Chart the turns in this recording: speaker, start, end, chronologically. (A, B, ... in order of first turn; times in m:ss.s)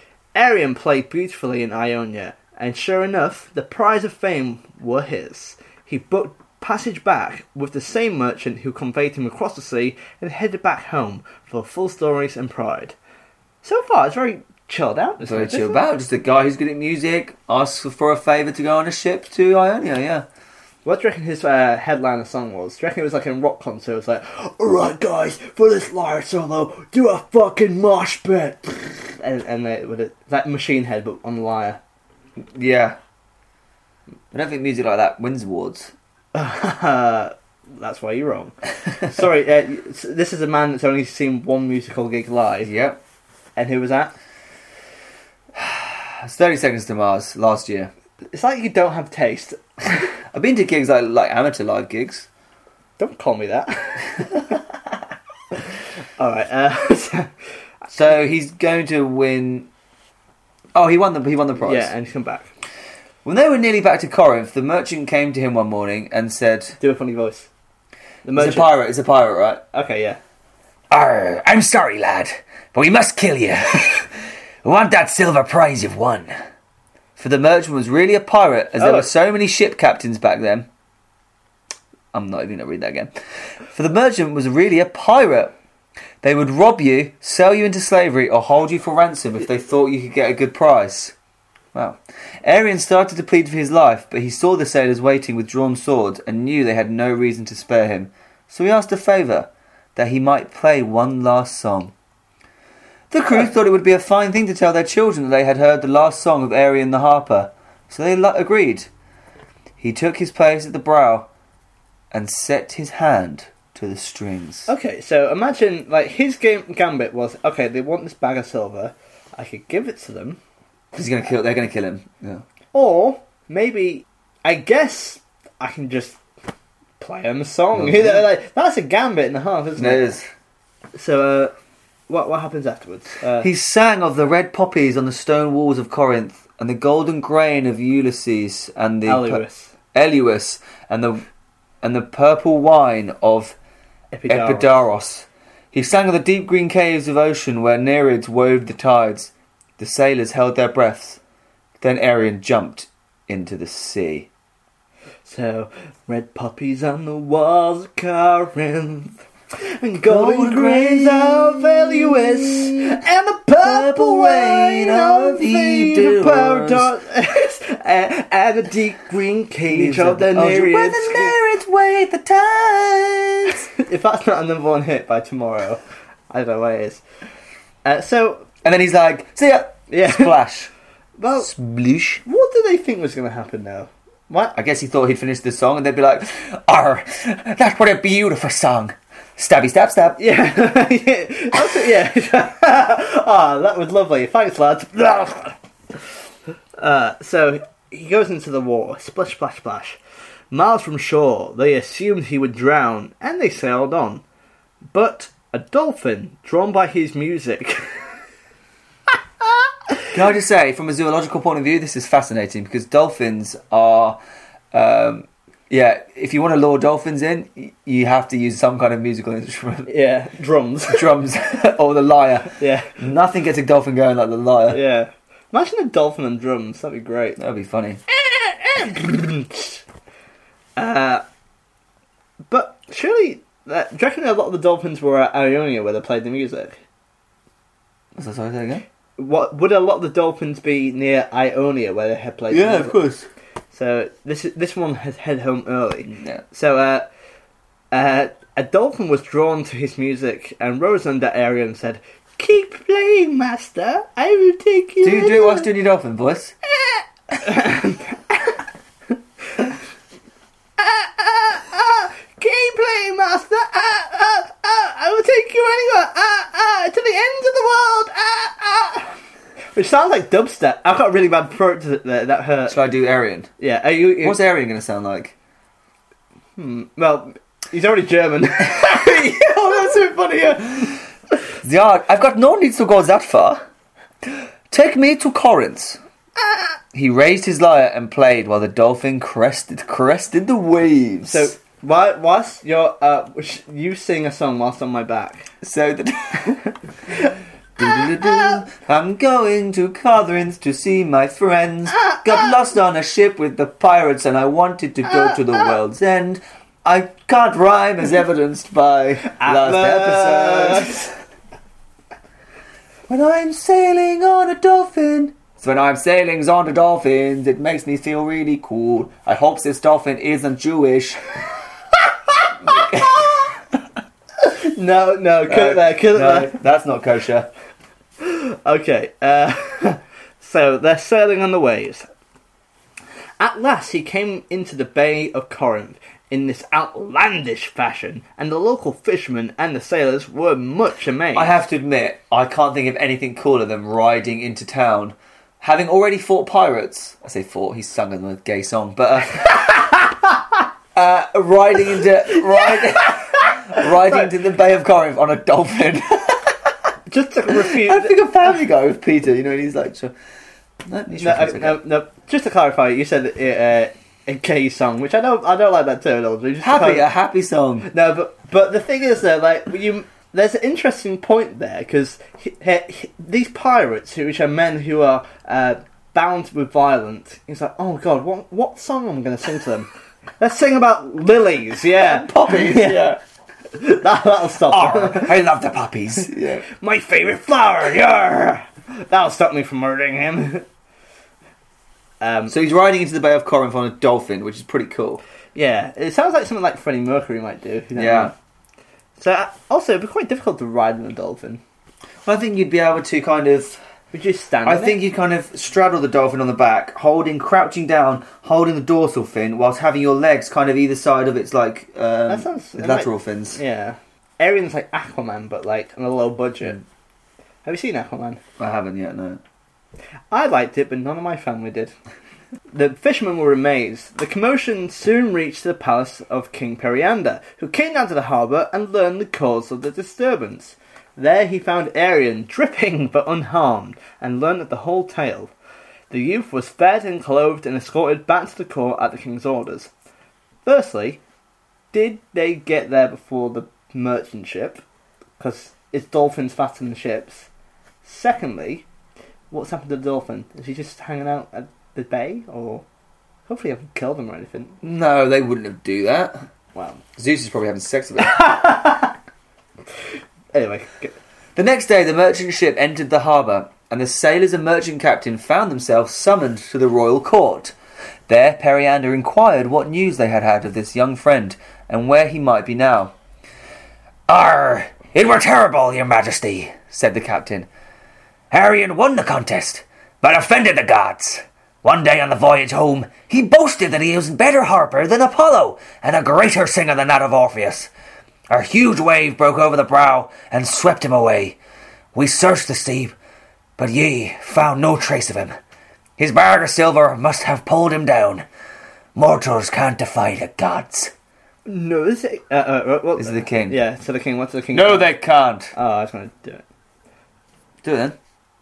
0:00.4-0:13.0 A
0:13.6-0:15.8 A
0:15.2-0:20.3 B
0:20.8-0:31.8 A
0:32.4-0:33.0 B
0:34.3-0:35.9 B
0:36.3-0:42.7 A
0:42.6-0:43.0 B
0:43.6-0:44.1 A
0:45.6-0:47.9 B
0:48.3-0:50.0 A
0:50.3-0:52.3 B
0:53.0-0:54.6 A
0:56.2-0:57.3 A
0:57.9-0:59.7 B
1:00.8-1:01.9 B
1:01.6-1:02.5 A
1:03.2-1:06.8 B
1:06.8-1:07.5 A
1:08.2-1:08.7 A
1:08.4-1:09.6 B
1:09.7-1:10.2 A
1:10.9-1:16.3 B
1:17.2-1:20.7 B
1:18.8-1:19.1 A
1:22.1-1:23.1 B
1:23.7-1:25.5 B
1:26.2-1:31.1 B
1:31.7-1:41.9 B
1:43.1-1:48.9 B
1:49.8-1:51.3 B
1:52.1-1:54.7 B
1:54.7-2:00.4 A
2:00.9-2:02.4 B
2:02.7-2:06.2 A
2:07.0-2:10.1 A
2:07.8-2:08.3 B
2:09.8-2:10.3 B
2:11.0-2:11.5 A
2:12.1-2:13.5 A
2:13.4-2:19.4 B
2:19.1-2:19.7 A
2:19.9-2:21.3 B
2:21.8-2:23.6 B
2:24.1-2:24.8 A
2:24.3-2:31.2 B
2:31.8-2:34.3 B
2:35.2-2:51.4 A
2:40.1-2:43.0 B
2:43.6-2:46.9 B
2:49.7-2:53.7 B
2:53.5-2:57.0 A
2:57.8-2:58.5 A
2:58.6-3:00.7 B
2:59.9-3:00.4 A
3:01.2-3:01.5 A
3:01.4-3:02.2 B
3:02.2-3:04.6 A
3:04.6-3:10.2 B
3:10.2-3:15.6 A
3:16.8-3:20.0 A
3:20.5-3:24.2 A
3:24.9-3:27.9 A
3:30.1-3:34.2 B
3:34.7-3:39.9 B
3:39.9-3:41.1 A
3:40.9-3:44.8 B
3:42.6-3:43.0 A
3:44.7-3:47.4 A
3:47.4-3:48.0 B
3:48.1-3:49.8 A
3:50.8-3:51.2 A
3:52.5-3:56.8 A
3:58.2-3:58.8 B
3:59.2-4:03.0 A
4:02.5-4:03.3 B
4:03.7-4:07.1 A
4:06.1-4:06.4 B
4:07.9-4:15.7 A
4:15.0-4:16.6 B
4:17.3-4:18.6 A
4:20.8-4:29.2 A
4:29.8-4:32.8 A
4:32.7-4:33.5 B
4:33.6-4:34.4 A
4:34.2-4:35.3 B
4:36.6-4:41.0 A
4:38.8-4:39.9 B
4:41.6-4:43.6 B
4:44.7-4:46.0 B
4:46.9-4:51.5 B
4:51.2-4:55.5 A
4:55.6-4:56.6 B
4:57.8-5:11.1 B
4:57.9-4:58.2 A
5:09.2-5:11.0 A
5:13.1-5:21.2 B
5:22.7-5:23.2 B
5:24.4-5:26.6 A
5:25.5-5:27.5 B
5:28.2-5:32.1 A
5:33.4-5:41.6 A
5:41.4-5:49.9 B
5:51.0-5:56.7 B
5:52.7-5:54.3 A
5:57.1-5:58.2 A
5:57.5-6:00.2 B
6:00.9-6:01.8 B
6:01.2-6:07.1 A
6:06.6-6:07.9 B
6:07.9-6:23.2 A
6:22.0-6:23.2 B
6:23.7-6:25.4 A
6:24.7-6:26.6 B
6:26.6-6:30.7 A
6:32.2-6:32.5 A
6:32.5-6:35.2 B
6:35.6-6:38.3 A
6:38.0-6:38.3 B
6:39.2-6:41.6 A
6:42.2-6:43.8 B
6:44.1-6:45.0 A
6:44.6-6:53.6 B
6:52.3-6:56.8 A
6:57.6-6:58.4 A
6:58.6-6:59.4 B
7:00.3-7:01.9 A
7:02.7-7:15.5 A
7:16.1-7:19.9 A
7:20.6-7:21.2 A
7:21.9-7:24.8 A
7:25.4-7:27.5 A
7:28.0-7:28.8 A
7:29.5-7:32.8 A
7:33.5-7:34.8 A
7:34.8-7:36.4 B
7:36.8-7:37.0 A
7:37.2-7:38.5 B
7:38.3-7:39.1 A
7:40.5-7:41.2 A
7:41.6-7:47.7 B
7:48.3-7:53.1 B
7:54.3-7:57.7 B
7:58.5-8:07.9 B
8:08.5-8:11.6 B
8:12.1-8:13.2 B
8:13.8-8:15.6 B
8:16.2-8:18.5 B
8:19.2-8:21.1 B
8:21.7-8:25.1 A
8:23.2-8:23.8 B
8:24.7-8:25.7 B
8:25.7-8:26.6 A
8:27.8-8:28.2 B